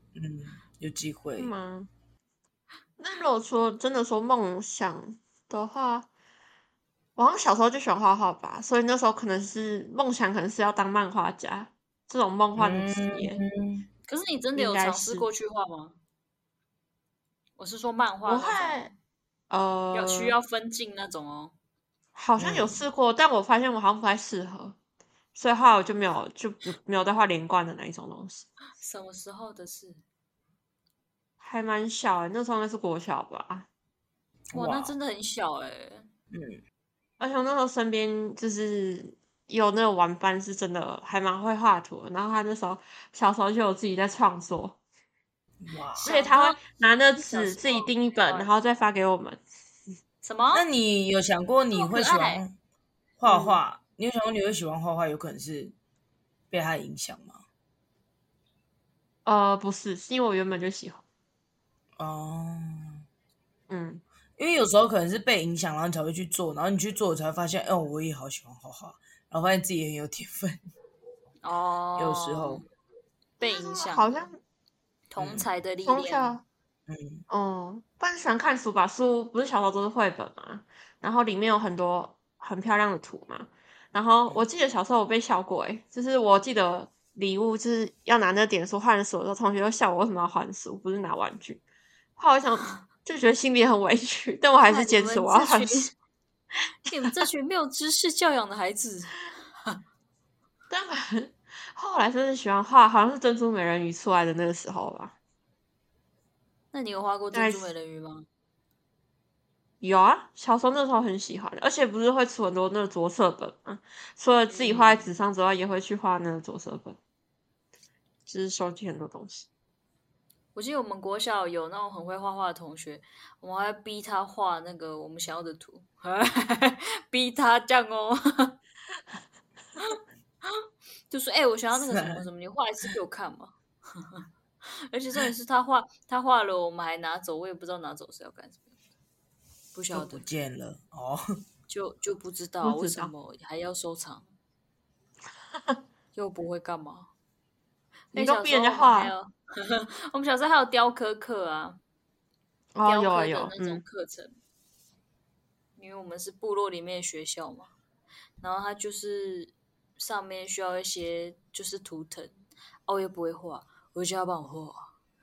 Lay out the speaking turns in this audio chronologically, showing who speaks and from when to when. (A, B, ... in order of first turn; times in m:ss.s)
0:00.2-0:01.5 A
0:01.4-0:01.9 B
0:03.0-0:06.1 B
0:07.2-0:13.4 B
0:12.6-0:13.9 A
0:14.1-0:16.0 C
0:14.6-0:15.3 B
0:17.6-0:18.9 C
0:18.2-0:18.9 B
0:19.5-0:20.4 B
0:19.9-0:21.5 C
0:22.2-0:24.8 B
0:22.4-0:22.8 A
0:25.4-0:28.5 B
0:28.8-0:30.0 C
0:31.4-0:33.7 B
0:34.5-0:34.9 A
0:34.5-0:36.1 C
0:36.3-0:36.6 A
0:37.2-0:44.8 B
0:45.6-0:46.1 A
0:46.0-0:46.6 C
0:46.0-0:49.4 B
0:47.2-0:48.5 C
0:50.2-0:50.7 C
0:50.5-0:52.6 A
0:51.7-0:52.4 C
0:53.2-0:55.7 A
0:53.2-0:53.6 B
0:56.5-0:57.4 A
0:59.2-1:01.0 B
1:02.0-1:03.0 A
1:03.7-1:04.0 B
1:04.4-1:10.7 A
1:11.4-1:12.7 C
1:12.0-1:12.6 A
1:13.4-1:14.3 C
1:13.4-1:14.4 B
1:15.1-1:16.4 C
1:15.2-1:15.5 A
1:15.8-1:16.4 B
1:16.9-1:17.2 A
1:17.3-1:31.6 B
1:32.2-1:35.9 B
1:34.7-1:35.9 C
1:36.9-1:39.8 C
1:40.7-1:45.2 B
1:46.7-1:48.3 C
1:47.3-1:47.7 B
1:49.8-1:57.0 B
1:54.5-1:55.1 C
1:58.3-1:59.5 B
2:00.6-2:08.6 C
2:09.8-2:18.7 C
2:11.8-2:12.3 A
2:19.7-2:20.2 C
2:19.9-2:21.2 A
2:21.7-2:24.3 C
2:22.6-2:23.1 B
2:26.2-2:27.1 C
2:28.1-2:31.8 C
2:28.1-2:29.1 B
2:32.8-2:33.8 B
2:32.9-2:34.4 C
2:35.8-2:37.7 C
2:38.4-2:42.3 C
2:42.9-2:44.9 C